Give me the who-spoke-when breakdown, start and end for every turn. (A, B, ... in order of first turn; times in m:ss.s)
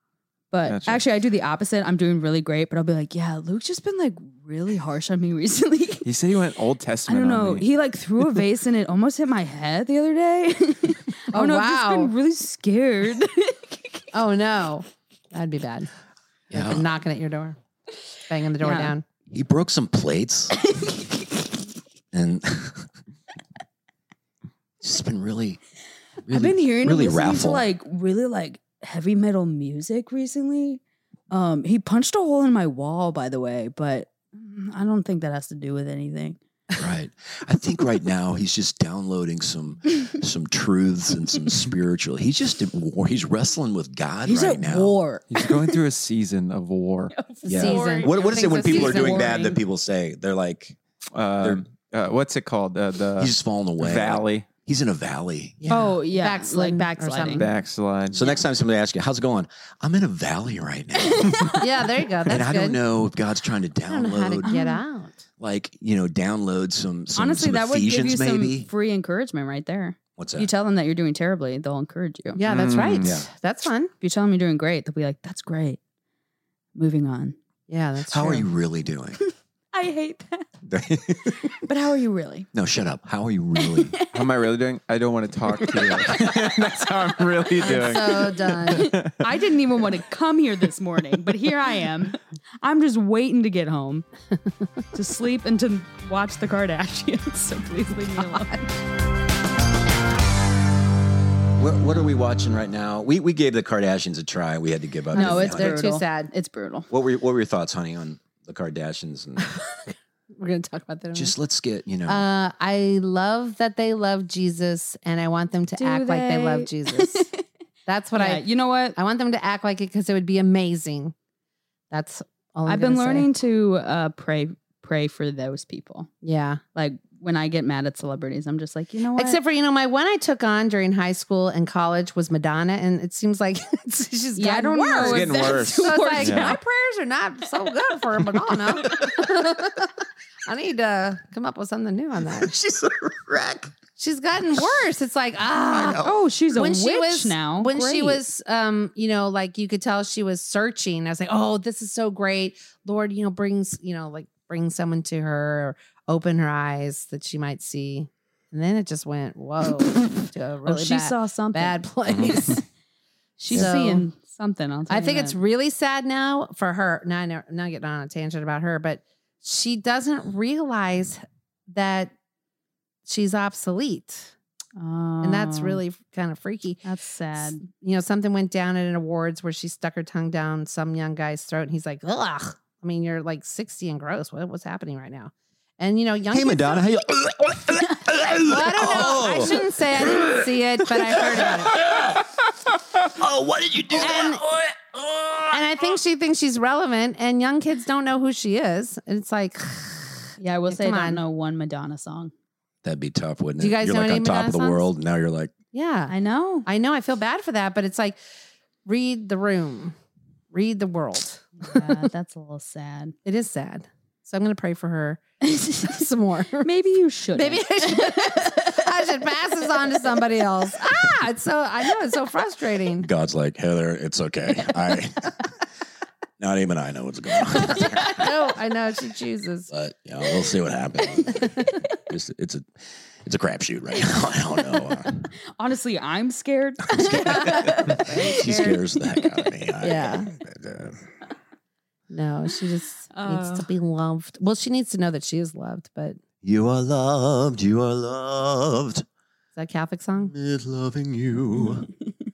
0:00.5-0:06.1 A
0:00.7-0:01.0 B
0:06.0-0:07.7 B
0:07.1-0:14.0 A
0:11.3-0:12.1 C
0:14.1-0:15.9 C
0:16.5-0:16.9 D
0:16.5-0:17.6 C
0:18.3-0:19.0 C
0:18.6-0:19.0 A
0:19.3-0:20.6 D
0:22.1-0:22.9 D
0:24.8-0:25.6 D
0:26.2-0:27.7 D
0:26.3-0:36.4 A
0:36.8-0:45.0 D
0:44.2-0:45.8 A
0:45.3-0:47.1 B
0:47.1-0:49.6 A
0:47.5-0:49.4 C
0:47.5-0:50.8 D
0:51.1-0:54.5 B
0:53.2-0:55.7 D
0:55.6-0:57.5 C
0:55.7-0:57.5 A
0:57.3-0:58.2 B
0:58.1-1:01.6 D
1:01.2-1:01.6 A
1:01.6-1:02.8 C
1:02.2-1:04.5 D
1:03.9-1:05.2 C
1:04.4-1:04.8 A
1:05.4-1:08.7 D
1:07.2-1:12.4 A
1:10.2-1:10.5 D
1:12.4-1:13.9 C
1:12.5-1:13.2 B
1:13.0-1:13.3 D
1:14.0-1:15.8 A
1:16.8-1:17.4 A
1:17.7-1:18.5 C
1:18.1-1:19.2 D
1:19.3-1:20.5 A
1:20.7-1:21.6 D
1:21.4-1:22.5 A
1:22.5-1:24.0 D
1:23.6-1:24.1 A
1:24.1-1:29.2 B
1:25.6-1:26.5 A
1:27.6-1:28.9 C
1:27.7-1:28.2 A
1:28.7-1:34.1 A
1:34.9-1:38.7 A
1:38.0-1:38.5 C
1:41.6-1:45.8 D
1:45.1-1:46.3 C
1:45.1-1:46.9 A
1:46.9-1:49.5 D
1:49.4-1:51.3 C
1:51.1-1:52.3 D
1:52.1-1:57.3 C
1:55.8-1:57.4 A
1:57.9-2:01.1 C
1:58.2-1:59.0 A
2:01.9-2:03.3 C
2:02.7-2:06.1 A
2:06.2-2:06.6 C
2:06.8-2:09.4 A
2:09.2-2:19.9 C
2:14.4-2:16.6 A
2:15.0-2:16.6 B
2:20.5-2:22.5 C
2:22.4-2:23.7 D
2:24.0-2:42.6 C
2:25.7-2:26.1 D
2:25.8-2:28.2 A
2:40.6-2:41.8 A
2:42.1-2:42.6 D
2:43.4-2:45.4 A
2:43.5-2:44.1 C
2:44.9-2:52.1 C
2:53.1-2:54.3 C
2:54.8-2:55.8 A
2:55.2-2:56.8 C
2:56.8-2:57.7 A
2:57.4-3:06.8 C
3:06.3-3:15.6 D
3:08.4-3:11.9 C
3:14.0-3:14.5 C
3:15.5-3:21.2 C
3:20.4-3:22.3 A
3:22.8-3:25.5 D
3:23.6-3:24.9 C
3:25.7-3:26.1 C
3:26.1-3:26.7 A
3:26.7-3:28.2 C
3:28.9-3:30.0 C
3:30.5-3:31.7 C
3:31.6-3:33.2 A
3:33.2-3:36.7 C
3:35.4-3:35.9 A
3:36.6-3:38.8 A
3:37.3-3:43.1 C
3:43.0-3:45.4 D
3:46.4-3:48.3 D
3:47.7-3:49.7 C
3:49.7-3:55.3 D
3:51.0-3:51.8 A
3:55.6-3:59.4 A
3:56.9-4:01.0 D
3:57.4-3:58.8 C
3:59.8-4:00.3 C
4:02.1-4:06.2 C
4:03.1-4:03.7 A
4:06.4-4:09.1 D
4:09.6-4:10.3 C
4:10.2-4:11.9 D